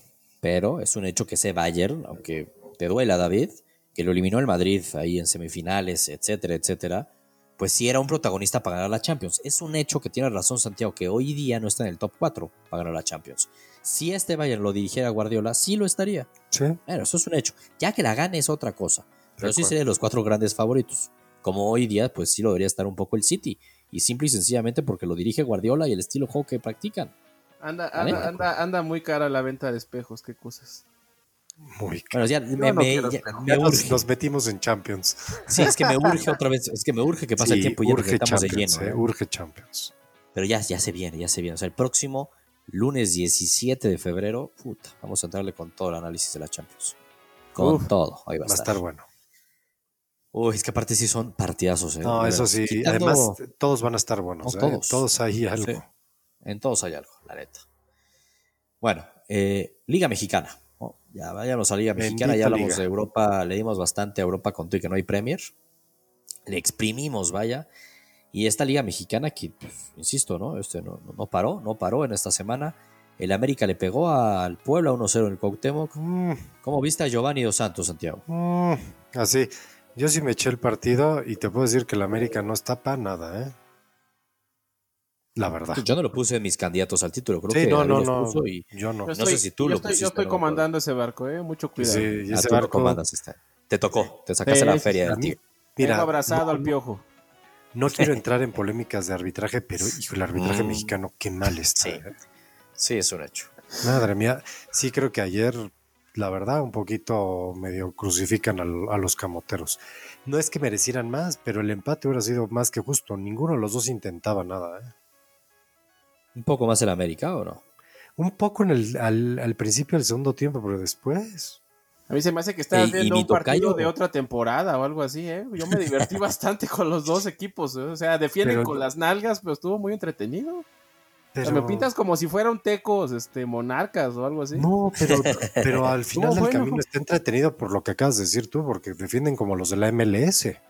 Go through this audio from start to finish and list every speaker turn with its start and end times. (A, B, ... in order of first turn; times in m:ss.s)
0:00.4-0:16.3 A
0:16.5-0:16.8 B
0:16.9-0:27.1 A
0:19.4-0:19.8 B
0:27.6-0:30.8 C
0:28.0-0:28.3 A
0:28.1-0:28.5 B
0:31.6-0:32.2 B
0:32.1-0:34.1 A
0:32.6-0:33.8 C
0:33.7-0:35.2 B
0:35.5-0:39.0 A
0:35.7-0:36.2 C
0:37.4-0:39.9 B
0:40.4-0:47.0 A
0:47.6-0:48.8 A
0:47.6-0:47.9 C
0:48.5-0:49.0 B
0:50.3-0:53.4 A
0:52.0-0:55.8 B
0:54.4-0:55.0 A
0:56.4-0:57.6 A
0:58.8-1:05.5 A
1:02.0-1:02.8 B
1:06.5-1:07.7 A
1:08.3-1:16.0 A
1:16.0-1:16.4 B
1:16.6-1:18.2 A
1:18.3-1:23.6 B
1:25.4-1:25.9 B
1:25.8-1:30.7 A
1:27.5-1:29.1 B
1:29.1-1:32.2 C
1:31.8-1:33.0 B
1:32.3-1:35.4 A
1:34.5-1:34.9 C
1:35.0-1:36.7 B
1:35.8-1:37.0 C
1:37.7-1:42.2 B
1:40.3-1:41.0 A
1:42.8-1:43.5 A
1:43.8-1:54.9 B
1:56.4-1:57.6 A
1:58.2-2:01.6 B
2:02.1-2:10.6 C
2:02.7-2:03.9 A
2:08.4-2:08.8 B
2:11.3-2:11.9 B
2:11.4-2:14.7 C
2:14.6-2:20.6 B
2:15.0-2:15.9 A
2:16.1-2:16.8 C